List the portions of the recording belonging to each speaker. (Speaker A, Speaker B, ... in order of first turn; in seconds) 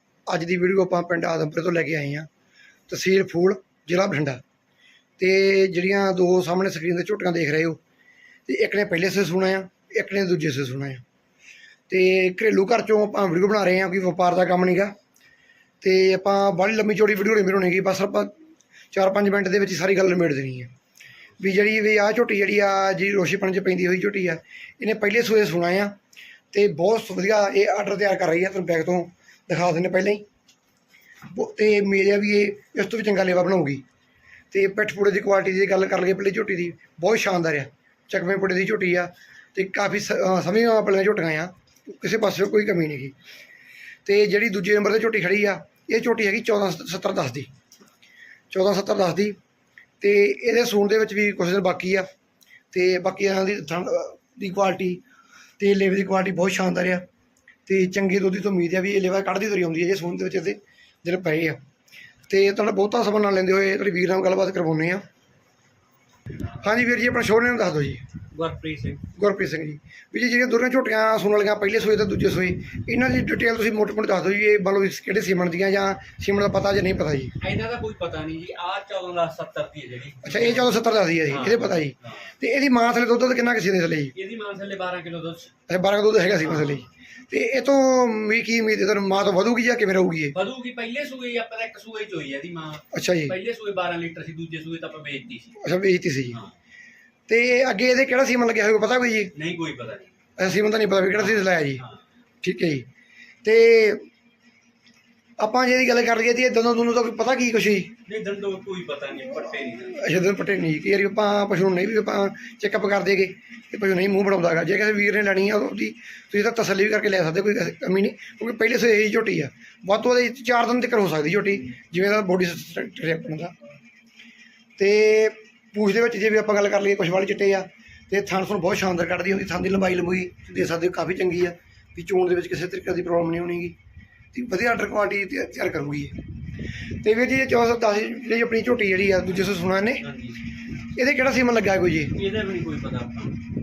Speaker A: 0.3-2.3, 2.9-4.4, 5.2-7.8, 8.5-11.0, 11.9-14.9, 15.8-18.3, 18.9-20.7, 21.4-25.9, 26.5-30.2, 31.3-33.8, 34.5-43.1, 44.0-47.5, 48.5-49.4, 50.0-52.1, 52.7-55.0, 55.6-57.0, 57.7-61.6, 62.3-65.0, 66.6-68.0, 69.2-77.4, 80.2-84.2, 85.7-90.4, 92.9-93.4, 95.6-96.4, 97.3-99.3, 100.4-101.8, 102.4-102.9, 103.4-104.0, 105.4-108.0, 109.8-123.6, 124.8-133.8, 134.3-136.2, 137.0-140.1, 140.9-142.2
Speaker B: 68.3-69.0, 77.4-80.8, 81.3-82.2, 84.1-85.5, 86.4-86.8, 90.3-95.6, 99.3-100.1, 101.2-102.0, 108.1-110.0, 140.0-140.4, 142.1-143.4